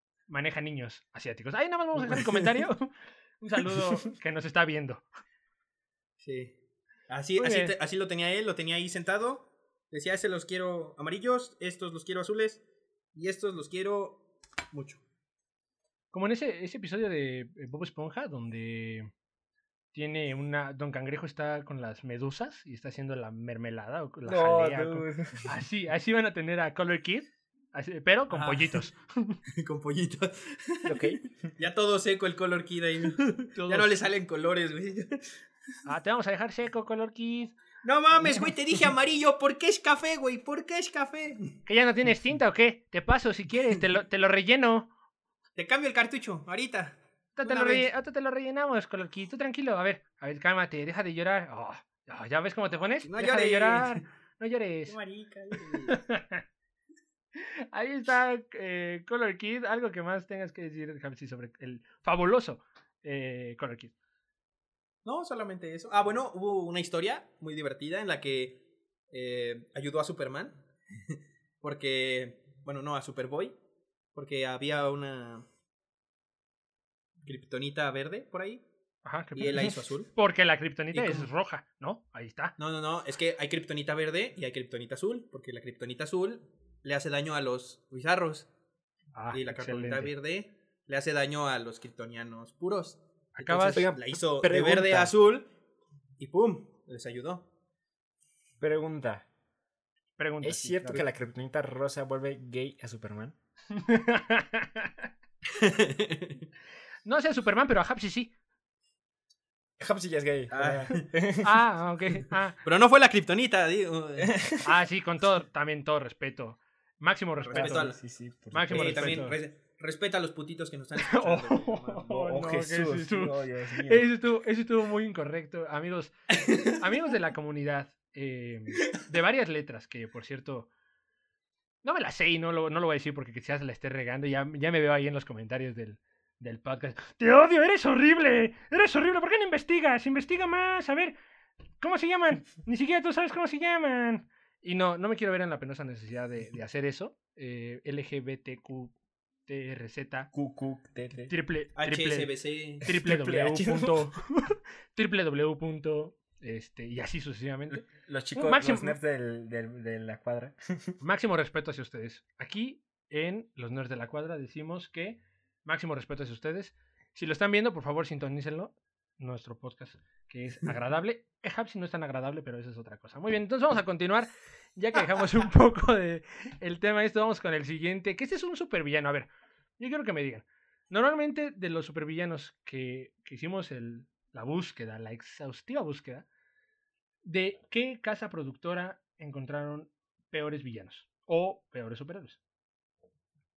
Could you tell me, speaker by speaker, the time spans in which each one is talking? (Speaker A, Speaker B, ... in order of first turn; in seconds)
Speaker A: 0.3-5.0, 7.4-7.8, 16.1-19.1, 19.9-29.4, 33.5-34.0, 35.9-37.5, 41.7-44.9, 47.4-55.0, 55.6-56.4, 57.4-63.9, 79.0-82.5, 89.2-90.1, 93.4-93.9, 100.2-101.0, 103.8-104.9, 107.0-108.3, 111.4-112.6, 114.6-117.9, 118.5-119.4, 121.0-130.7, 131.8-141.2, 141.8-148.9, 149.5-150.3, 151.3-152.3, 152.8-159.0, 161.0-186.3, 187.2-192.4
Speaker B: 2.1-2.5, 6.2-6.6, 7.1-12.6, 13.2-15.0, 28.3-28.9, 29.5-35.4, 37.8-41.5, 45.6-47.9, 53.0-54.0, 54.9-56.0, 65.0-73.5, 74.2-75.5, 77.2-78.6, 79.4-80.1, 80.9-81.3, 82.6-88.5, 89.3-95.5, 96.2-97.5, 105.5-106.4, 110.5-111.1, 112.6-114.4, 117.4-118.0, 118.7-122.0, 126.4-126.8, 151.8-152.9
Speaker C: 24.3-25.6, 30.9-31.2, 93.7-95.1, 98.6-99.3, 100.4-103.4, 109.8-111.6, 114.2-114.7, 117.5-119.3, 122.0-124.1, 150.3-151.3, 152.8-154.1, 157.9-161.0